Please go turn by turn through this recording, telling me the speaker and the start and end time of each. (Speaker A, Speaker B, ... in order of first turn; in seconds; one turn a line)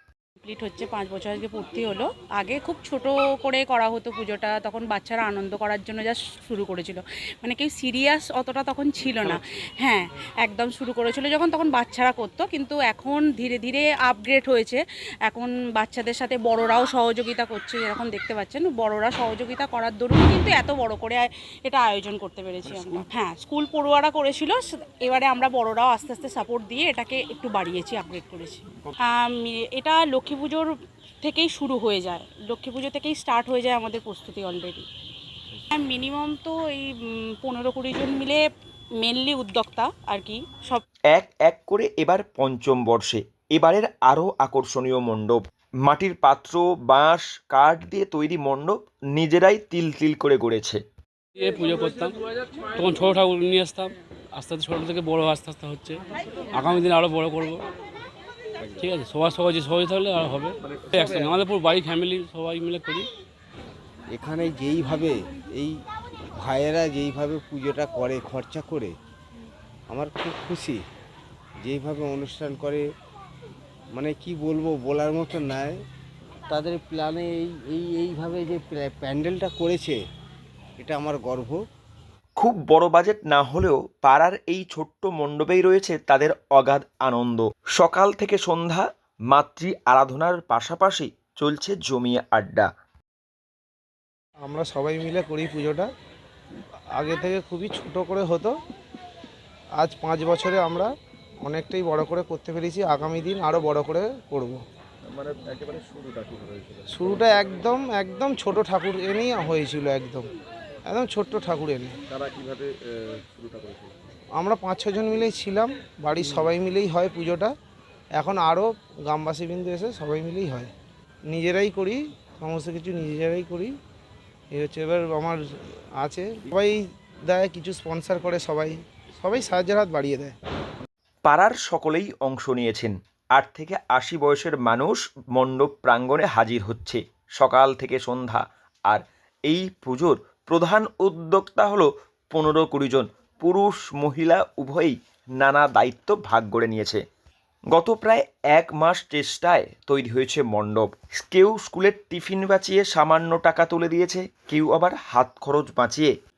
Speaker A: 0.4-34.9
Speaker A: 35.7-38.4
Speaker A: 39.0-40.8
Speaker B: 41.1-50.8
Speaker C: 51.5-52.1
Speaker C: 52.8-56.0
Speaker C: 56.5-57.6
Speaker C: 58.8-60.5
Speaker D: 60.7-61.4
Speaker C: 61.0-63.0
Speaker E: 64.1-65.7
Speaker E: 66.4-68.9
Speaker E: 69.9-70.8
Speaker E: 71.6-72.8
Speaker E: 74.0-75.7
Speaker E: 76.5-80.0
Speaker E: 80.8-81.5
Speaker B: 82.4-92.7
Speaker F: 94.5-95.9
Speaker F: 97.0-98.5
Speaker F: 99.8-100.9
Speaker F: 101.4-104.6
Speaker D: 105.1-107.0
Speaker F: 106.9-110.3
Speaker F: 110.9-112.0
Speaker D: 112.1-114.0
Speaker F: 114.4-117.5
Speaker F: 118.2-120.7
Speaker F: 121.3-123.7
Speaker F: 124.5-125.4
Speaker F: 126.0-130.3
Speaker B: 131.3-147.0
Speaker B: 147.7-156.1